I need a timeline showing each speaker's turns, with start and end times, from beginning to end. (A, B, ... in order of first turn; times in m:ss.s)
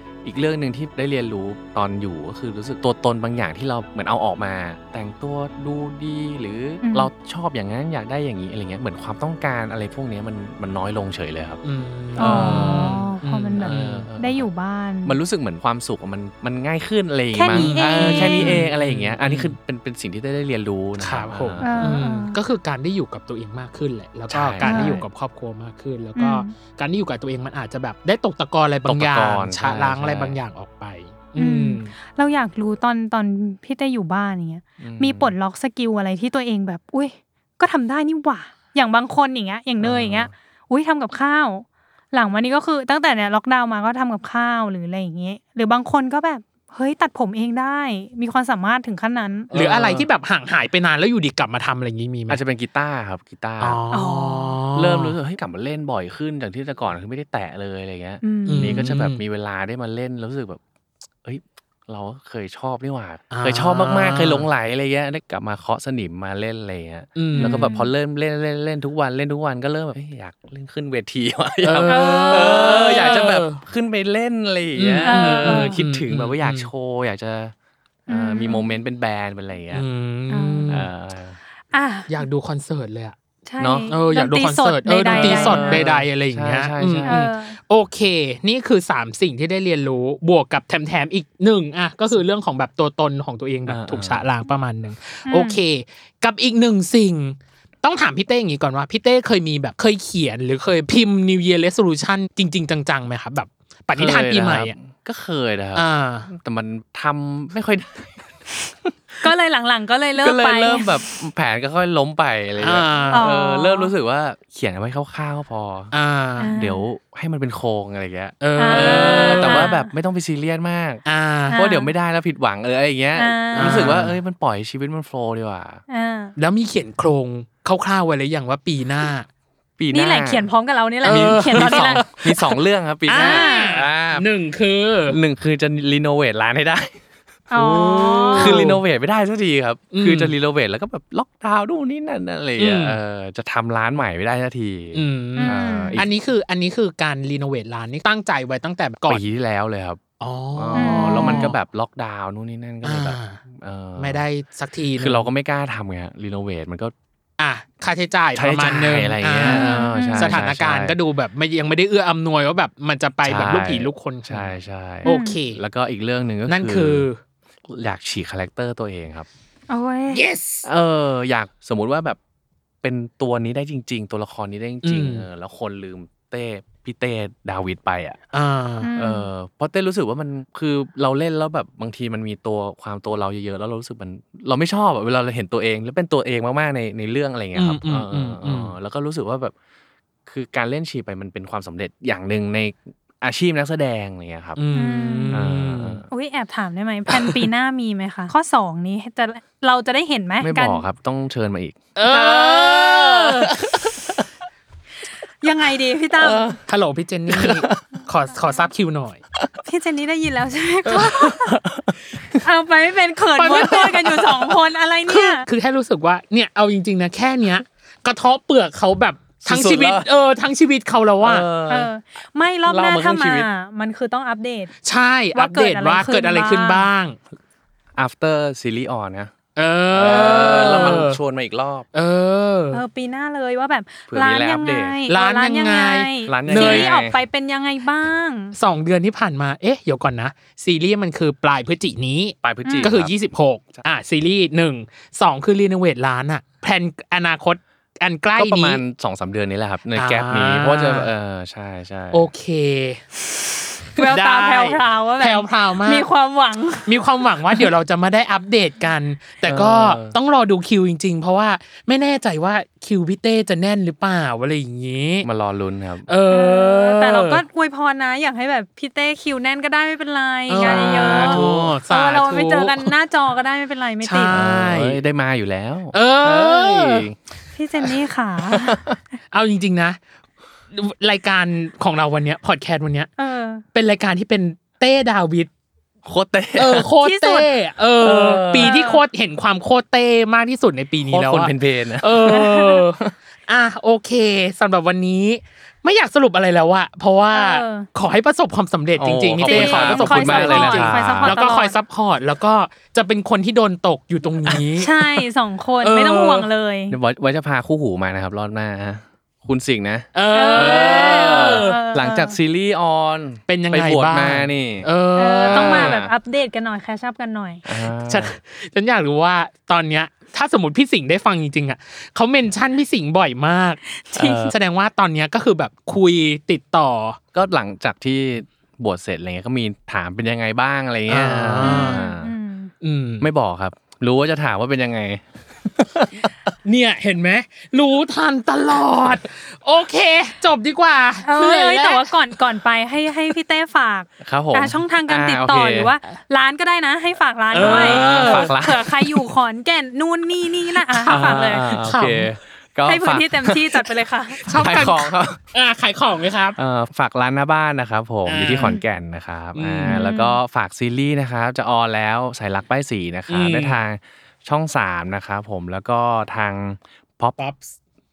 0:00.2-0:11.6 A
0:06.8-0:07.1 B
0:11.6-0:14.1 C
0:12.1-0:13.0 A
0:12.2-0:15.2 B
0:13.6-0:14.4 A
0:15.0-0:22.0 A
0:17.3-0:18.6 B
0:17.5-0:19.6 C
0:21.0-0:31.9 C
0:21.6-0:22.4 B
0:24.3-0:25.0 A
0:24.6-0:25.0 B
0:26.2-0:26.5 B
0:28.8-0:30.4 A
0:31.4-0:49.5 B
0:34.8-0:35.3 A
0:39.8-0:40.3 A
0:49.5-0:50.1 A
0:49.5-0:52.4 C
0:52.3-0:53.8 A
0:53.6-0:55.2 C
0:53.9-0:54.6 B
0:54.7-1:00.6 A
0:58.2-0:58.8 B
0:58.4-0:59.2 C
1:01.2-1:17.5 A
1:03.3-1:04.5 C
1:07.2-1:07.6 C
1:07.3-1:07.9 B
1:11.6-1:13.6 C
1:11.8-1:13.1 B
1:14.8-1:16.7 C
1:15.1-1:15.8 B
1:18.1-1:19.8 A
1:18.1-1:18.8 B
1:19.7-1:20.9 C
1:20.3-1:20.7 B
1:20.7-1:21.4 A
1:21.7-1:22.2 B
1:22.1-1:23.2 C
1:23.4-1:25.8 B
1:23.6-1:23.9 A
1:23.9-1:44.7 C
1:25.0-1:27.2 A
1:27.0-1:27.6 B
1:33.7-1:34.2 A
1:35.3-1:35.6 B
1:43.9-1:48.3 A
1:45.8-1:46.3 C
1:49.2-1:50.9 B
1:50.2-1:55.9 A
1:52.6-1:53.3 C
1:53.1-1:53.9 B
1:55.9-1:56.5 C
1:56.4-1:56.8 B
1:56.5-2:05.8 A
1:58.4-1:59.7 C
1:58.6-1:59.9 B
2:01.0-2:01.6 C
2:01.5-2:01.9 B
2:03.2-2:03.9 B
2:03.5-2:04.1 C
2:05.9-2:06.3 B
2:06.4-2:09.3 C
2:09.8-2:10.5 A
2:09.9-2:12.1 B
2:11.0-2:12.4 C
2:11.0-2:14.2 A
2:13.1-2:15.2 C
2:13.1-2:13.8 B
2:15.1-2:17.0 A
2:17.5-2:18.6 B
2:17.5-2:26.1 A
2:17.7-2:18.8 C
2:19.9-2:20.3 C
2:22.6-2:23.0 C
2:24.9-2:29.2 C
2:25.4-2:26.0 B
2:29.1-2:30.0 A
2:30.2-2:31.5 C
2:30.5-2:34.2 A
2:30.7-2:31.5 B
2:32.8-2:33.4 C
2:34.0-2:35.3 C
2:35.0-2:36.9 A
2:37.4-2:45.6 C
2:38.3-2:41.0 A
2:39.4-2:40.4 B
2:43.2-2:47.1 A
2:45.0-2:45.4 B
2:46.5-2:47.2 C
2:47.7-2:49.3 A
2:49.7-2:50.2 B
2:50.1-2:50.7 C
2:50.6-2:52.2 A
2:52.8-2:58.2 A
2:54.8-2:55.2 C
2:58.3-2:58.9 C
2:58.8-2:59.3 B
2:59.0-3:09.5 A
3:07.5-3:08.7 C
3:10.2-3:14.6 A
3:14.6-3:16.0 C
3:14.7-3:15.4 B
3:15.3-3:16.0 A
3:16.1-3:20.8 B
3:17.1-3:17.5 A
3:20.4-3:24.2 A
3:21.9-3:23.5 C
3:25.4-3:26.6 B
3:26.2-3:26.6 A
3:26.7-3:29.2 C
3:27.3-3:27.9 A
3:28.0-3:28.7 B
3:29.6-3:31.6 B
3:30.9-3:32.4 A
3:32.3-3:35.5 B
3:33.4-3:34.3 C
3:35.1-3:41.5 C
3:39.4-3:40.1 A
3:41.2-3:41.9 A
3:41.7-3:44.7 B
3:42.6-3:43.5 A
3:44.8-3:47.2 C
3:45.3-3:46.9 B
3:47.9-3:49.3 A
3:49.6-3:51.2 C
3:49.9-3:51.9 A
3:51.9-3:52.8 C
3:52.7-3:58.5 B
3:54.1-3:55.0 A
3:55.1-3:56.9 C
3:56.3-3:57.1 A
3:58.5-4:08.8 C
4:02.4-4:03.1 A
4:02.6-4:02.9 B
4:08.4-4:12.3 A
4:09.9-4:11.1 C
4:12.1-4:13.0 C
4:13.9-4:17.0 B
4:14.0-4:16.1 C
4:16.8-4:25.3 C
4:19.4-4:20.2 A
4:25.2-4:26.1 A
4:26.1-4:27.4 C
4:26.3-4:34.4 B
4:30.5-4:32.9 C
4:30.6-4:31.7 A
4:34.0-4:35.0 C
4:34.3-4:37.2 A
4:35.9-4:37.1 C
4:37.5-4:38.8 B
4:38.5-4:39.0 A
4:39.3-4:40.0 C
4:40.7-4:43.1 C
4:43.2-4:43.6 B
4:43.7-4:45.5 C
4:46.0-4:46.9 A
4:46.5-5:04.9 C
4:47.0-4:47.5 B
4:48.0-4:48.7 A
4:48.6-4:49.0 B
4:51.0-4:53.1 A
4:52.3-4:52.8 B
4:57.3-4:57.9 B
4:59.0-5:01.3 A
4:59.4-5:01.7 B
5:04.8-5:07.0 B
5:05.8-5:06.5 C
5:06.9-5:14.9 A
5:10.1-5:11.8 C
5:10.3-5:12.3 B
5:13.5-5:16.0 C
5:15.2-5:17.6 B
5:15.4-5:16.1 A
5:17.6-5:18.4 A
5:18.0-5:23.8 C
5:24.0-5:24.5 B
5:24.1-5:24.5 A
5:24.4-5:27.2 C
5:27.3-5:32.3 A
5:31.1-5:32.0 C
5:31.6-5:32.7 B
5:32.8-5:33.3 C
5:33.2-5:36.3 A
5:36.6-5:42.1 C
5:41.2-5:51.8 B
5:44.2-5:45.9 A
5:47.5-5:48.5 C
5:47.6-5:49.2 A
5:50.9-5:52.3 C
5:51.0-5:53.9 A
5:52.8-5:54.8 B
5:54.4-5:55.4 A
5:54.4-5:56.6 C
5:56.6-6:07.4 A
5:58.3-5:58.8 C
5:59.5-6:00.0 C
5:59.9-6:00.4 B
6:03.3-6:03.8 C
6:07.4-6:07.8 C